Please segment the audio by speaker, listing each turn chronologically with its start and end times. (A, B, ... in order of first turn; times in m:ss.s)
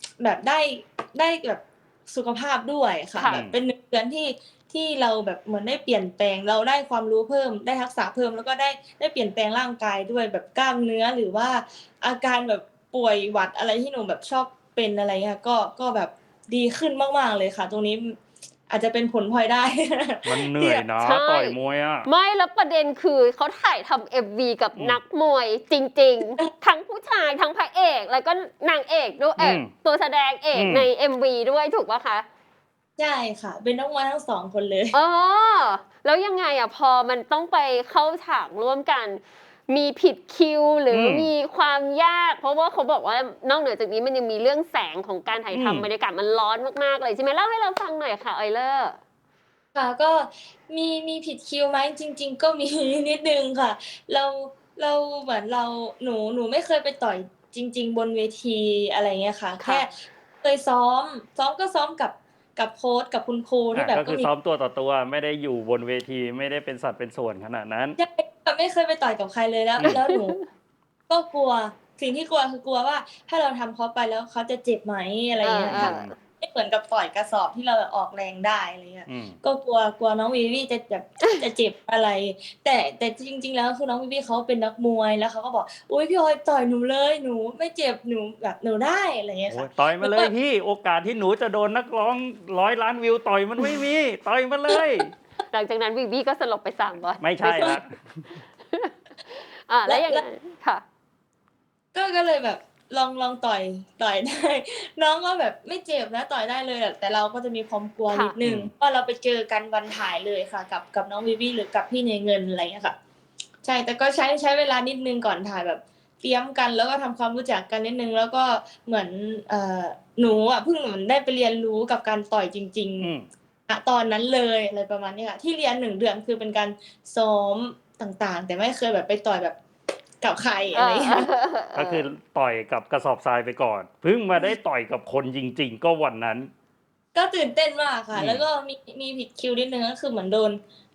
0:00.2-0:18.2 A
0:03.2-0:03.4 B
0:03.2-0:03.6 C
0:18.7-0:20.9 A
0:20.2-0:22.1 C
0:21.0-0:32.2 B
0:29.4-0:29.7 C
0:30.5-0:30.9 C
0:33.0-0:35.0 A
0:34.9-0:49.0 B
0:40.9-0:41.3 C
0:45.5-0:45.9 C
0:49.7-1:04.3 A
1:03.7-1:08.0 C
1:08.0-1:10.4 A
1:09.8-1:10.4 B
1:11.1-1:30.3 A
1:15.4-1:16.1 B
1:15.7-1:16.1 C
1:19.1-1:19.4 C
1:29.5-1:35.1 C
1:35.5-1:37.8 B
1:37.2-1:38.2 C
1:37.4-1:37.8 A
1:38.7-1:40.8 B
1:39.8-1:40.2 A
1:41.9-1:53.0 A
1:48.4-1:48.7 C
1:53.6-2:03.1 A
2:03.0-2:03.3 C
2:03.7-2:09.5 A
2:10.2-2:11.3 A
2:10.7-2:12.0 B
2:11.7-2:16.5 C
2:17.1-2:20.6 A
2:18.1-2:18.4 C